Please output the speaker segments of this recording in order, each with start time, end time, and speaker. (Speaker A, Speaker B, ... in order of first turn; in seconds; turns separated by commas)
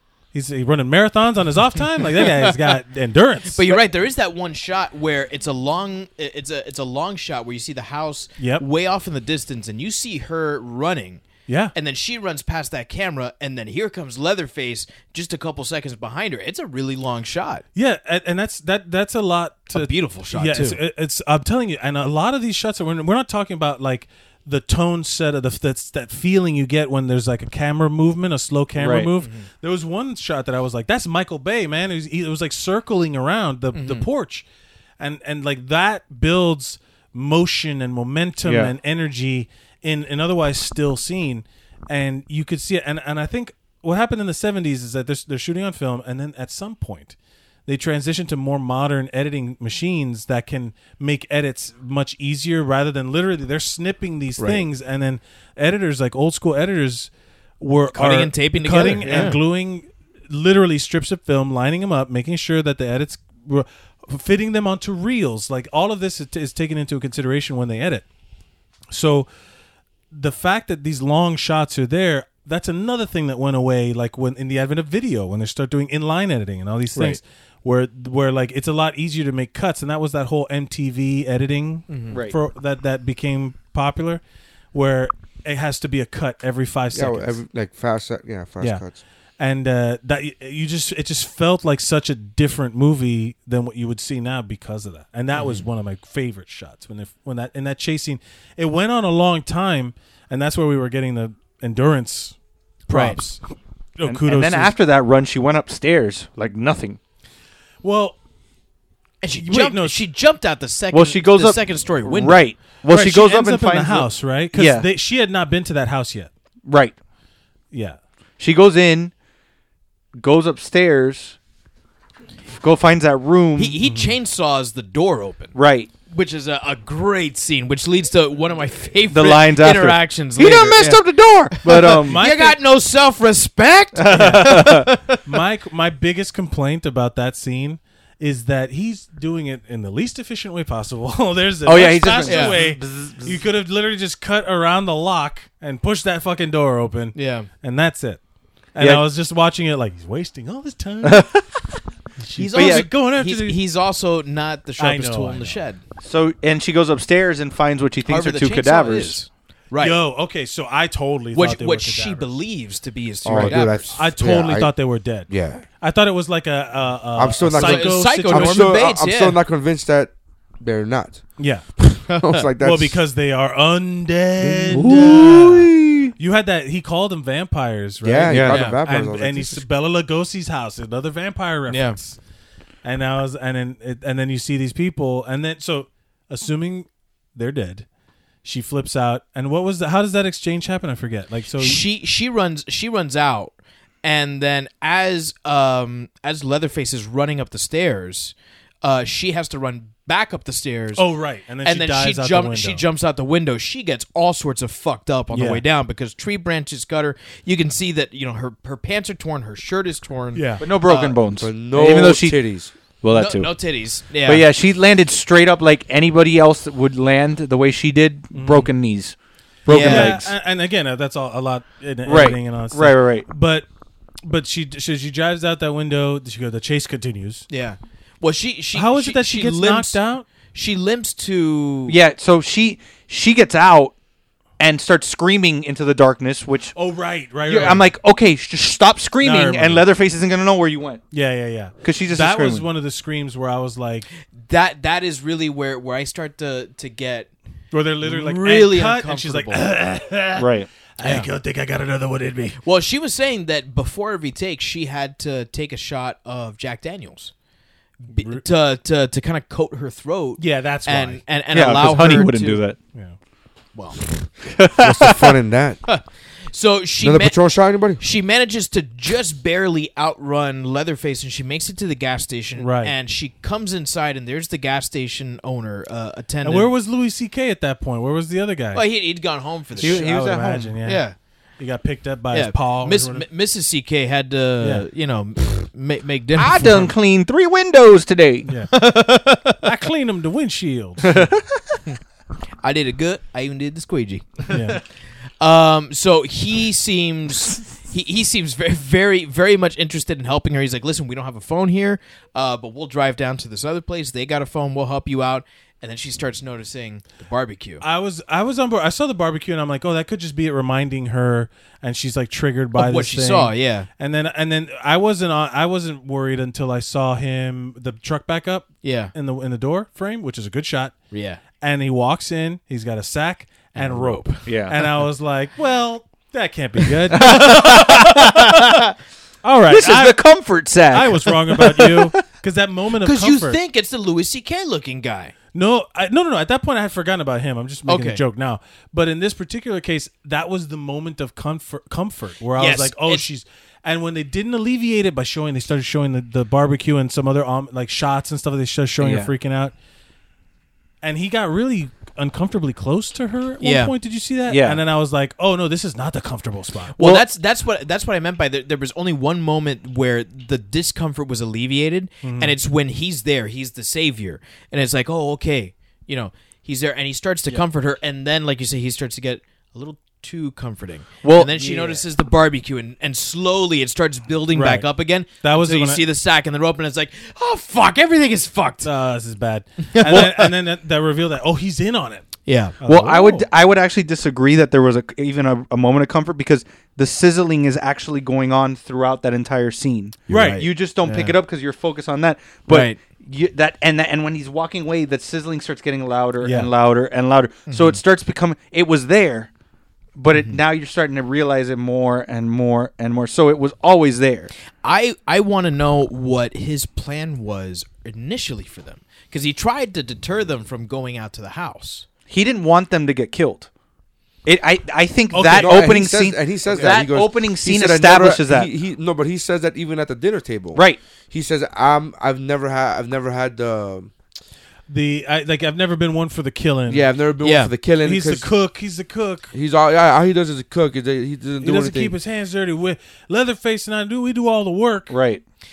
Speaker A: 0.3-3.8, Speaker B: 2.2-2.5, Speaker B: 3.5-17.6, Speaker A: 8.4-8.6, Speaker A: 11.5-11.7, Speaker A: 17.8-34.5, Speaker B: 19.7-20.8, Speaker C: 28.8-29.1, Speaker B: 29.2-29.5, Speaker B: 33.7-34.1, Speaker A: 35.0-47.2, Speaker C: 38.4-38.7, Speaker A: 47.7-68.1, Speaker B: 54.4-54.7, Speaker B: 57.9-59.4, Speaker A: 68.9-69.3, Speaker A: 70.1-84.2, Speaker B: 81.9-82.2, Speaker A: 84.7-87.4, Speaker D: 86.9-89.0, Speaker A: 89.4-102.3, Speaker B: 95.3-95.7, Speaker A: 102.9-103.4, Speaker B: 102.9-103.2, Speaker A: 104.0-104.7, Speaker C: 104.0-107.0, Speaker A: 107.8-108.2, Speaker B: 109.2-112.4, Speaker A: 109.4-110.0, Speaker C: 110.9-114.9, Speaker A: 112.9-116.3, Speaker C: 116.7-117.0, Speaker A: 117.7-118.0, Speaker C: 118.4-119.1, Speaker C: 120.2-121.4, Speaker C: 122.5-123.8, Speaker B: 123.6-125.5, Speaker A: 123.9-124.2, Speaker C: 125.5-125.9, Speaker B: 126.1-135.2, Speaker C: 129.1-132.2, Speaker A: 131.8-132.6, Speaker C: 134.0-134.9, Speaker A: 134.1-148.2, Speaker C: 141.7-143.4, Speaker B: 142.3-142.6, Speaker B: 147.2-147.5, Speaker A: 148.8-151.4, Speaker C: 151.0-151.4, Speaker A: 152.2-153.6, Speaker B: 152.4-155.8, Speaker C: 152.6-152.9, Speaker A: 154.8-155.6, Speaker C: 156.0-159.2, Speaker B: 158.1-160.0, Speaker A: 159.8-162.3, Speaker B: 161.3-164.0, Speaker D: 163.2-164.7, Speaker A: 163.3-168.8, Speaker D: 165.3-165.6, Speaker D: 167.2-171.2, Speaker B: 167.5-169.4, Speaker A: 171.4-171.6, Speaker D: 171.8-173.0, Speaker B: 172.1-172.4, Speaker A: 172.6-182.2, Speaker D: 174.4-175.3, Speaker C: 174.7-176.1, Speaker D: 178.0-179.6, Speaker C: 178.3-178.6, Speaker B: 178.5-178.8, Speaker B: 181.7-182.0, Speaker A: 182.8-187.9, Speaker A: 188.4-191.8, Speaker B: 191.6-201.0, Speaker A: 201.0-202.8, Speaker B: 201.6-211.2, Speaker A: 205.3-205.6, Speaker A: 210.3-210.6, Speaker C: 210.6-212.4, Speaker D: 211.3-212.7, Speaker C: 213.0-213.5, Speaker B: 213.1-214.4, Speaker C: 214.2-220.3, Speaker A: 218.3-218.7, Speaker B: 219.7-220.2, Speaker A: 219.7-223.7, Speaker C: 222.1-223.3, Speaker A: 224.2-227.5, Speaker B: 227.5-230.0, Speaker A: 228.8-230.3, Speaker B: 230.5-232.0, Speaker C: 231.9-233.9, Speaker C: 234.6-236.7, Speaker A: 236.8-237.9, Speaker C: 237.5-241.0, Speaker A: 239.2-239.8, Speaker A: 241.1-244.1, Speaker C: 241.8-242.7, Speaker B: 244.4-247.3, Speaker A: 247.7-252.6, Speaker B: 248.0-249.6, Speaker C: 250.4-250.7, Speaker B: 251.0-251.3, Speaker B: 252.6-257.3, Speaker B: 258.0-262.6, Speaker A: 258.1-258.4, Speaker A: 260.4-261.2, Speaker C: 261.5-262.8, Speaker C: 264.5-265.4, Speaker D: 264.7-265.8, Speaker B: 265.9-267.4, Speaker D: 267.0-268.0, Speaker B: 268.0-276.7, Speaker A: 272.6-272.9, Speaker A: 276.4-278.8, Speaker B: 278.7-280.1, Speaker A: 279.8-281.1, Speaker C: 279.8-280.8, Speaker B: 280.8-281.1, Speaker A: 281.6-283.3, Speaker B: 282.3-286.9, Speaker C: 286.4-288.5, Speaker A: 288.5-288.8, Speaker B: 288.7-289.6, Speaker A: 289.6-291.3, Speaker C: 291.1-291.6, Speaker B: 292.6-294.8, Speaker A: 294.5-294.8, Speaker B: 295.4-307.8, Speaker A: 307.8-321.0, Speaker B: 312.8-313.9, Speaker B: 318.8-319.1, Speaker B: 321.1-321.4, Speaker A: 321.6-328.0, Speaker B: 323.8-324.3, Speaker C: 324.5-324.8, Speaker C: 327.1-328.9, Speaker B: 327.2-328.5, Speaker A: 329.4-333.6, Speaker C: 329.7-332.1, Speaker B: 333.0-335.3, Speaker A: 335.5-349.7, Speaker B: 337.9-338.2, Speaker B: 342.6-343.2, Speaker C: 349.0-349.3, Speaker A: 351.0-357.0, Speaker B: 353.6-353.9, Speaker C: 354.5-354.8, Speaker B: 357.0-378.9, Speaker C: 357.0-357.2, Speaker A: 362.2-362.6, Speaker C: 371.2-372.1, Speaker A: 374.5-376.0, Speaker A: 378.8-383.5, Speaker B: 379.9-380.5, Speaker B: 382.5-382.8, Speaker C: 382.9-399.5, Speaker B: 390.3-391.4, Speaker A: 390.3-390.6, Speaker B: 392.7-393.0, Speaker A: 396.4-396.7, Speaker B: 397.7-398.0, Speaker C: 400.2-404.5, Speaker B: 400.3-400.6, Speaker B: 404.8-412.1, Speaker C: 412.3-413.7, Speaker C: 414.4-418.7, Speaker A: 415.3-415.9, Speaker D: 415.6-424.1, Speaker B: 416.7-416.9, Speaker C: 420.7-421.0, Speaker A: 424.9-427.1, Speaker D: 426.9-428.5, Speaker B: 427.4-427.7, Speaker A: 428.0-429.5, Speaker D: 429.5-432.1, Speaker A: 431.6-435.1, Speaker C: 435.1-435.4